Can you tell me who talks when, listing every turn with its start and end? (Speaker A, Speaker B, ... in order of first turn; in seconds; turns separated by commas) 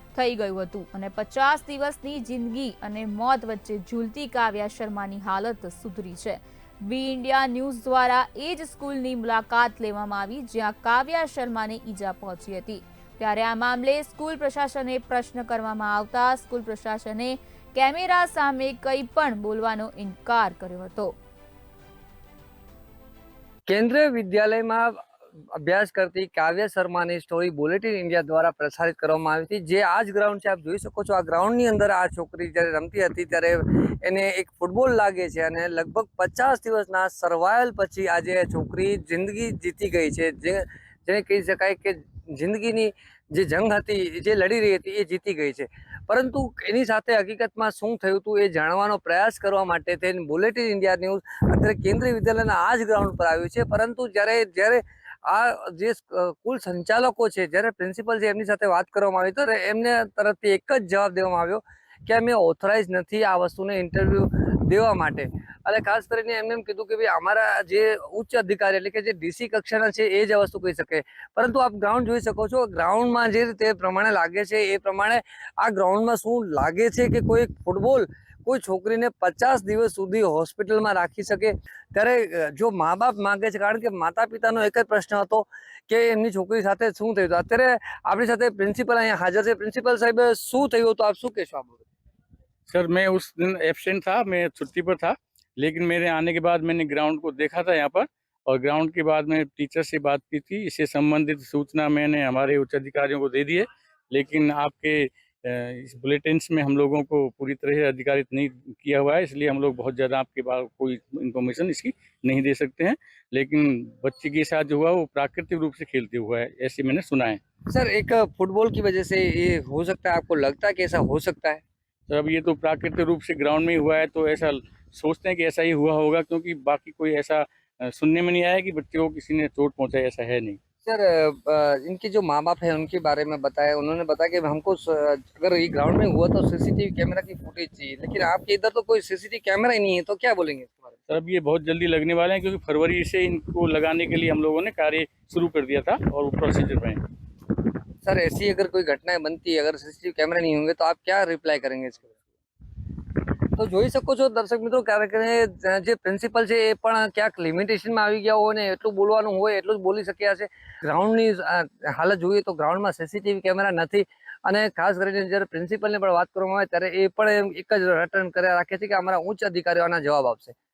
Speaker A: 0.1-21.2, Speaker B: 23.7-25.0, Speaker B: 25.5-91.8, Speaker C: 92.7-117.4, Speaker B: 117.7-121.6, Speaker C: 122.1-130.6, Speaker B: 130.8-141.0, Speaker C: 141.1-147.0, Speaker B: 148.0-152.1, Speaker B: 153.5-170.6